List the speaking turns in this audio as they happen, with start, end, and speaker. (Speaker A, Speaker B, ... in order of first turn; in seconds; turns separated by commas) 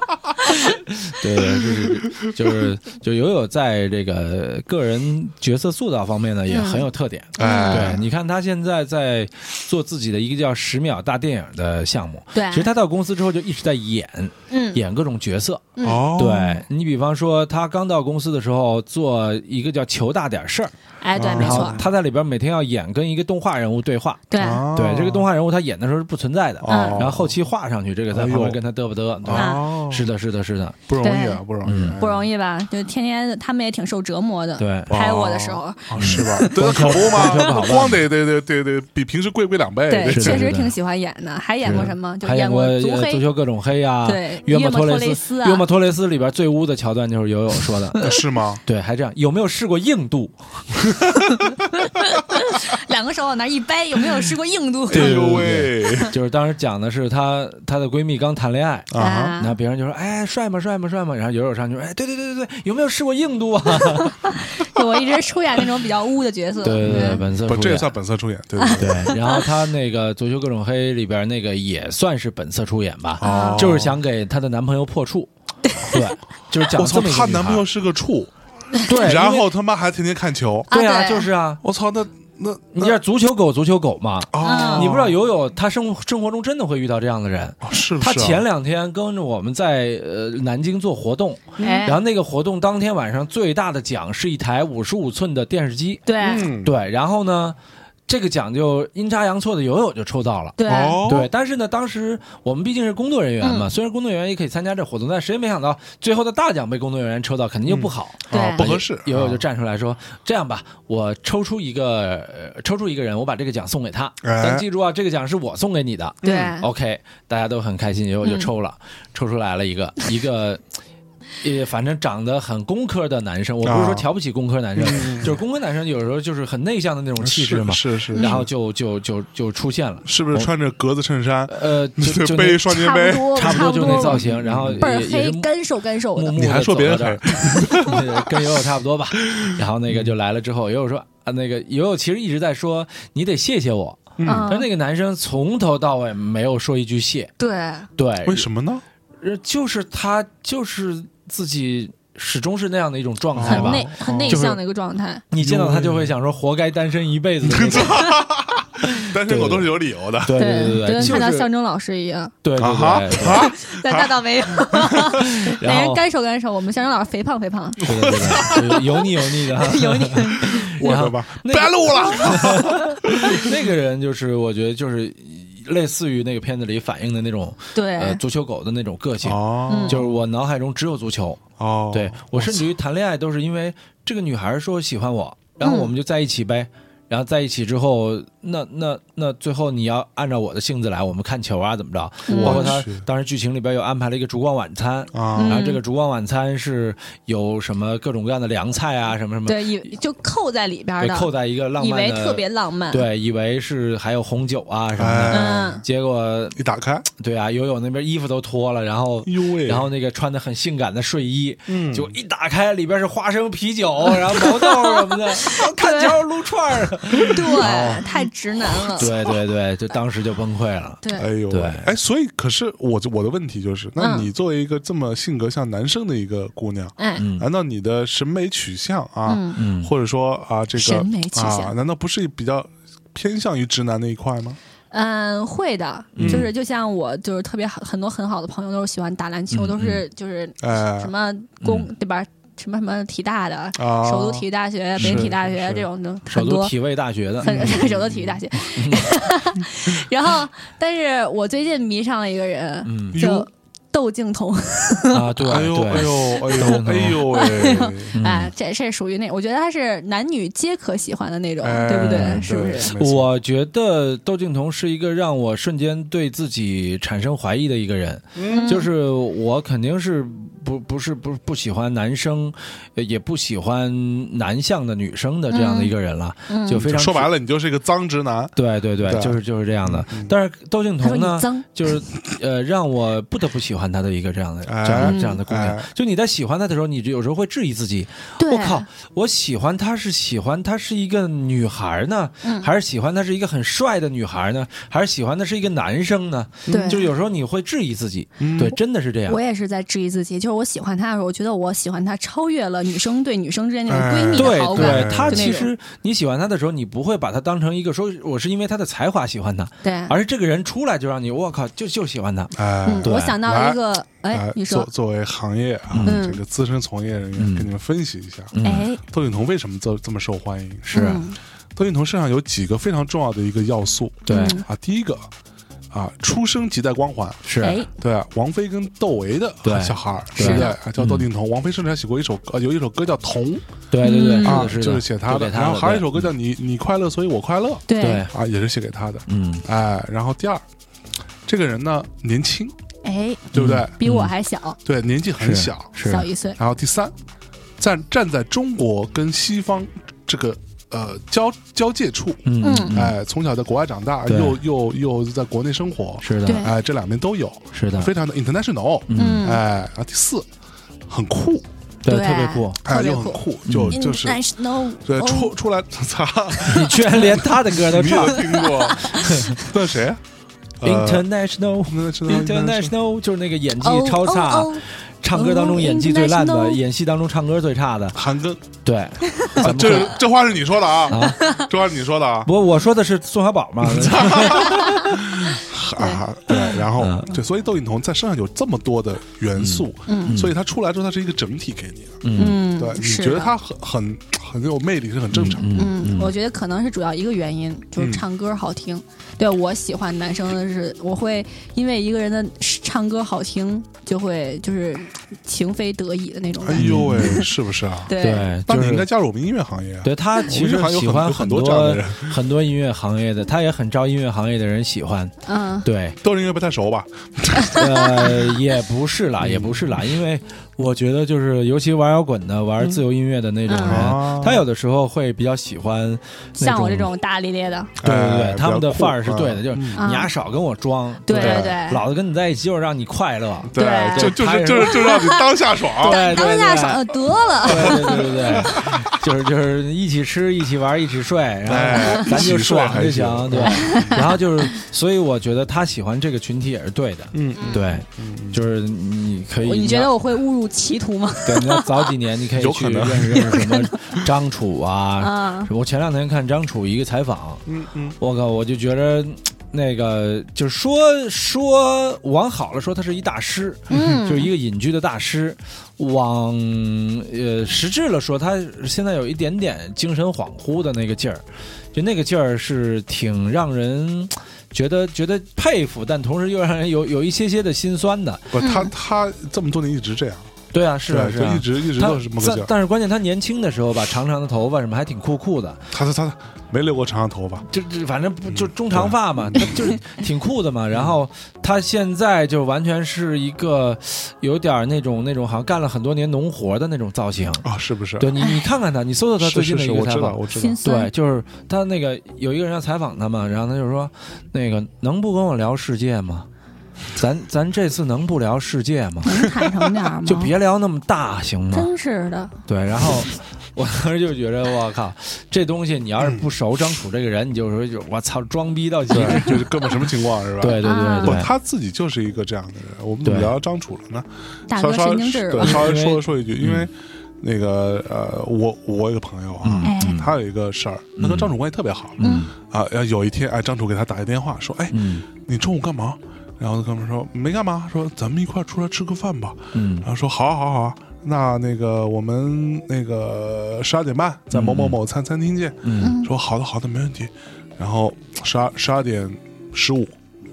Speaker A: 0.9-20.7, Speaker B: 6.5-8.0, Speaker C: 7.4-8.0, Speaker B: 12.3-12.7, Speaker B: 14.5-14.8, Speaker B: 15.8-16.2, Speaker C: 15.8-16.5, Speaker B: 21.0-21.8, Speaker C: 21.1-21.8, Speaker A: 21.4-30.8, Speaker B: 24.3-24.6, Speaker C: 24.4-25.3, Speaker C: 26.6-27.4, Speaker B: 26.7-27.1, Speaker C: 28.1-28.6, Speaker C: 29.2-30.1, Speaker B: 29.3-29.7, Speaker C: 30.9-32.3, Speaker B: 31.0-31.4, Speaker A: 31.6-32.0, Speaker B: 32.0-37.5, Speaker A: 34.6-34.9, Speaker C: 34.9-40.5, Speaker A: 36.0-38.0, Speaker B: 39.9-43.2, Speaker A: 40.0-40.7, Speaker A: 41.6-48.1, Speaker B: 44.0-45.6, Speaker C: 48.0-48.6, Speaker A: 48.6-50.4, Speaker B: 51.8-55.4, Speaker C: 54.9-56.1, Speaker A: 54.9-64.2, Speaker C: 58.9-59.4, Speaker B: 59.0-59.5, Speaker B: 64.0-67.2, Speaker A: 66.6-67.9, Speaker C: 66.8-69.2, Speaker B: 68.6-69.4, Speaker A: 68.8-75.3, Speaker C: 73.2-74.0, Speaker B: 73.2-73.8, Speaker B: 75.6-76.1, Speaker A: 75.8-77.7, Speaker C: 76.7-78.3, Speaker A: 78.8-79.5, Speaker C: 78.9-80.7, Speaker A: 80.7-81.6, Speaker B: 80.7-81.3, Speaker C: 81.6-83.0, Speaker A: 82.7-96.0, Speaker C: 84.3-85.2, Speaker B: 84.4-84.9, Speaker C: 87.6-88.4, Speaker C: 91.6-91.9, Speaker B: 91.6-92.0, Speaker B: 96.1-96.5, Speaker C: 96.2-96.7, Speaker A: 96.6-97.6, Speaker A: 98.1-120.6, Speaker B: 100.6-101.1, Speaker C: 100.7-101.3, Speaker B: 103.4-103.7, Speaker C: 107.7-109.4, Speaker B: 108.3-108.7, Speaker C: 114.2-114.6, Speaker C: 116.2-116.5, Speaker B: 116.2-116.7, Speaker B: 118.2-118.5, Speaker A: 121.4-130.5, Speaker C: 123.6-124.1, Speaker C: 124.8-125.4, Speaker C: 127.2-128.5, Speaker B: 128.2-128.4, Speaker C: 130.0-134.8, Speaker A: 131.5-132.8, Speaker B: 132.7-134.2, Speaker A: 133.3-135.5, Speaker B: 134.8-136.4, Speaker A: 136.1-147.3, Speaker C: 136.3-138.0, Speaker C: 139.3-140.1, Speaker C: 144.2-144.5, Speaker B: 144.2-144.7, Speaker B: 147.4-147.9, Speaker A: 147.9-148.5, Speaker C: 148.2-148.8, Speaker A: 149.2-154.6, Speaker C: 153.3-154.4, Speaker B: 153.4-155.2, Speaker A: 155.3-158.1, Speaker C: 155.4-156.1, Speaker C: 157.4-161.2, Speaker A: 158.8-161.5, Speaker B: 160.4-162.3, Speaker A: 162.4-163.5, Speaker C: 162.6-165.1, Speaker B: 163.2-168.6, Speaker A: 165.1-166.0, Speaker A: 167.8-199.9, Speaker C: 167.8-168.8, Speaker B: 169.4-170.7, Speaker C: 170.5-173.5, Speaker B: 171.9-172.5, Speaker B: 177.7-178.2, Speaker C: 179.2-180.1, Speaker B: 179.7-180.0, Speaker C: 181.6-182.7, Speaker B: 185.6-185.9, Speaker B: 192.2-192.8, Speaker C: 192.3-193.0, Speaker C: 195.1-195.6, Speaker B: 195.3-195.8, Speaker B: 199.4-203.1, Speaker A: 201.0-206.6, Speaker C: 205.0-205.7, Speaker B: 205.3-205.8, Speaker C: 206.6-207.1, Speaker A: 207.2-218.1, Speaker C: 209.2-209.9, Speaker C: 211.7-212.1, Speaker B: 214.4-216.2, Speaker B: 217.2-219.1, Speaker A: 218.9-221.9, Speaker B: 221.0-221.3, Speaker C: 221.1-234.6, Speaker B: 224.0-224.3, Speaker B: 227.0-227.2, Speaker A: 227.2-227.5, Speaker B: 229.2-229.6, Speaker A: 229.5-229.9, Speaker B: 230.7-231.7, Speaker B: 234.9-246.7, Speaker A: 236.2-236.5, Speaker C: 236.2-236.5, Speaker A: 239.5-240.0, Speaker C: 240.6-241.1, Speaker A: 241.6-241.9, Speaker C: 243.8-244.4, Speaker A: 245.0-245.3, Speaker C: 245.0-245.8, Speaker A: 246.3-247.8, Speaker C: 247.4-248.4, Speaker B: 247.4-255.2, Speaker A: 248.7-249.1, Speaker A: 252.8-253.2, Speaker C: 253.1-253.5, Speaker A: 255.1-257.2, Speaker C: 255.4-258.1, Speaker B: 255.9-262.9, Speaker A: 258.1-258.5, Speaker C: 261.6-263.4, Speaker A: 261.9-277.3, Speaker C: 268.3-268.7, Speaker B: 268.5-268.9, Speaker B: 275.5-275.9, Speaker B: 276.5-276.8, Speaker C: 276.8-280.3, Speaker A: 278.6-299.4, Speaker B: 281.0-281.7, Speaker C: 284.6-285.9, Speaker B: 285.0-285.4, Speaker B: 288.4-288.9, Speaker B: 292.4-292.7, Speaker C: 296.7-297.0, Speaker B: 296.7-297.1, Speaker C: 298.4-298.8, Speaker B: 299.3-305.7, Speaker C: 303.9-305.6, Speaker A: 304.4-313.4, Speaker B: 309.8-310.1, Speaker C: 312.5-313.8, Speaker B: 312.9-314.9, Speaker C: 314.3-318.5, Speaker A: 315.9-316.2, Speaker B: 316.0-316.4, Speaker A: 317.4-317.7, Speaker A: 318.5-318.9, Speaker B: 318.6-319.0, Speaker C: 319.1-321.1, Speaker A: 320.9-321.2, Speaker B: 320.9-321.4, Speaker C: 321.8-325.3, Speaker A: 324.3-324.6, Speaker B: 324.3-324.6, Speaker C: 325.9-333.6, Speaker A: 327.4-327.8, Speaker B: 327.6-327.9, Speaker A: 329.6-331.3, Speaker B: 330.4-330.8, Speaker A: 333.9-336.3, Speaker B: 334.0-334.7, Speaker C: 334.4-340.6, Speaker B: 337.9-338.3, Speaker A: 338.0-338.3, Speaker A: 339.3-339.6, Speaker C: 341.4-342.7, Speaker B: 343.0-344.8, Speaker A: 343.5-344.3, Speaker C: 343.5-343.9, Speaker C: 344.8-346.0, Speaker A: 345.4-346.3, Speaker B: 346.1-346.6, Speaker C: 346.6-347.1, Speaker C: 347.8-360.4, Speaker A: 352.4-353.2, Speaker B: 352.6-352.9, Speaker A: 354.3-354.6, Speaker A: 356.2-356.6, Speaker B: 356.4-356.7, Speaker A: 357.7-358.1, Speaker A: 359.1-359.5, Speaker B: 359.1-359.6, Speaker C: 361.1-361.7, Speaker A: 362.0-362.8, Speaker B: 362.1-365.5, Speaker C: 362.8-364.5, Speaker A: 363.7-364.0, Speaker C: 365.0-370.2, Speaker A: 366.6-368.4, Speaker B: 368.2-369.6, Speaker A: 369.1-369.6, Speaker C: 370.8-371.3, Speaker A: 370.8-378.2, Speaker C: 371.9-372.9, Speaker B: 373.8-376.8, Speaker C: 378.1-378.6, Speaker A: 378.8-380.2, Speaker C: 379.5-382.5, Speaker A: 381.1-381.4, Speaker B: 381.4-381.7, Speaker A: 382.4-385.4, Speaker C: 383.8-392.2, Speaker B: 386.0-386.8, Speaker A: 387.0-387.4, Speaker A: 389.6-390.5, Speaker B: 390.1-390.4, Speaker A: 392.2-392.6, Speaker B: 392.4-393.5, Speaker C: 392.8-395.7, Speaker A: 395.3-396.3, Speaker B: 395.7-407.5, Speaker C: 397.9-398.2, Speaker C: 406.6-408.1, Speaker A: 406.8-407.4, Speaker B: 408.1-408.5, Speaker A: 408.2-409.1, Speaker C: 408.6-412.4, Speaker A: 410.0-415.3, Speaker B: 415.4-415.9, Speaker A: 415.8-416.2, Speaker C: 416.2-418.3, Speaker A: 417.7-427.1, Speaker C: 419.4-419.9, Speaker B: 423.7-424.1, Speaker C: 423.8-424.6, Speaker B: 426.6-427.9, Speaker C: 428.0-430.0, Speaker A: 428.0-435.1, Speaker B: 430.0-430.3, Speaker B: 431.3-432.0, Speaker C: 431.4-431.7, Speaker C: 433.7-436.4, Speaker B: 433.7-438.7, Speaker A: 436.0-437.1, Speaker A: 437.6-450.1, Speaker C: 437.7-439.1, Speaker C: 441.6-444.3, Speaker B: 443.6-444.2, Speaker C: 447.3-448.6, Speaker B: 447.5-448.0, Speaker B: 449.6-452.1, Speaker A: 451.4-457.6, Speaker C: 452.5-453.6, Speaker B: 455.2-455.7, Speaker C: 457.6-458.1, Speaker A: 458.2-478.6, Speaker C: 463.9-464.2, Speaker B: 463.9-464.5, Speaker C: 478.5-480.5, Speaker B: 478.6-478.9, Speaker A: 480.7-485.8, Speaker C: 481.1-482.7, Speaker C: 485.9-487.7, Speaker A: 487.7-506.5, Speaker C: 488.5-489.9, Speaker C: 497.6-498.3, Speaker B: 498.4-498.6, Speaker C: 499.4-500.8, Speaker B: 500.5-501.1, Speaker A: 507.1-509.4, Speaker B: 509.2-510.5, Speaker A: 510.2-511.9, Speaker B: 511.7-512.6, Speaker A: 512.7-519.8, Speaker C: 516.2-516.5, Speaker C: 519.1-550.1, Speaker A: 520.6-521.5, Speaker B: 520.8-521.4, Speaker A: 523.2-523.5, Speaker B: 524.7-525.9, Speaker A: 525.6-526.9, Speaker A: 529.6-530.3, Speaker B: 529.8-530.3, Speaker A: 531.2-531.5, Speaker A: 532.2-532.5, Speaker B: 532.2-532.5, Speaker A: 534.9-535.2, Speaker A: 539.7-540.1, Speaker A: 544.5-545.0, Speaker A: 545.8-546.1, Speaker B: 546.0-546.3